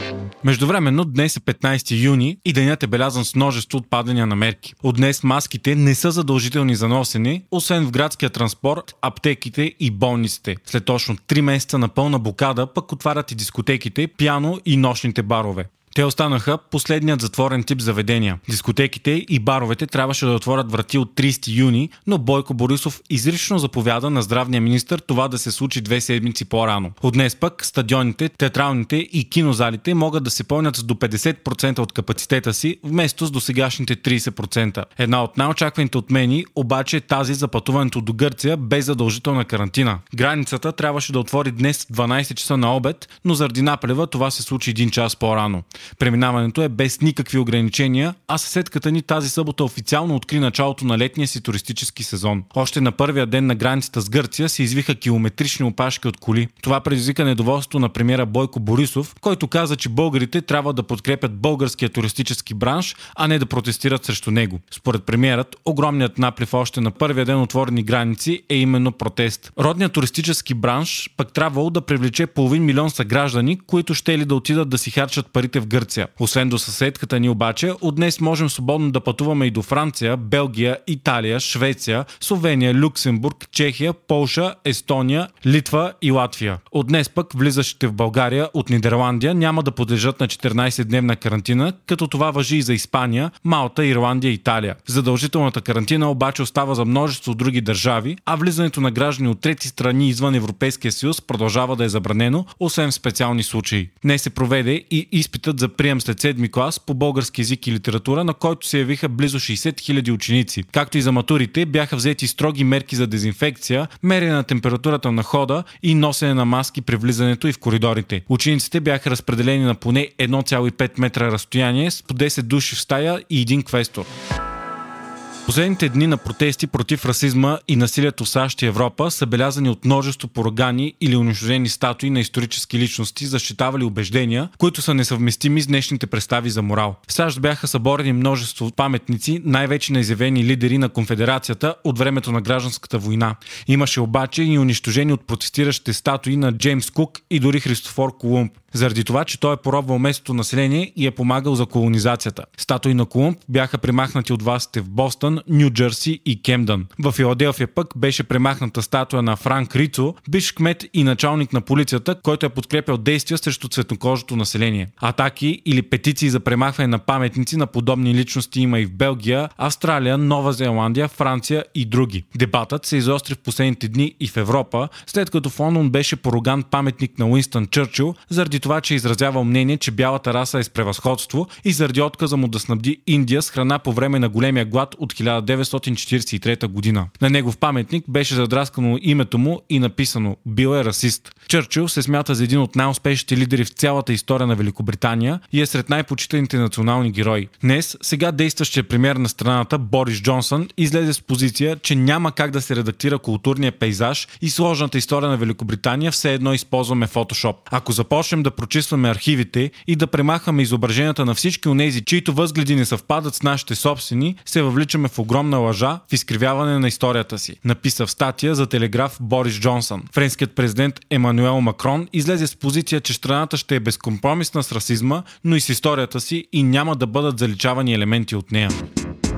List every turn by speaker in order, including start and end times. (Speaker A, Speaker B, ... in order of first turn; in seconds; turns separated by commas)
Speaker A: 0.4-124.1, Speaker A: 125.5-228.8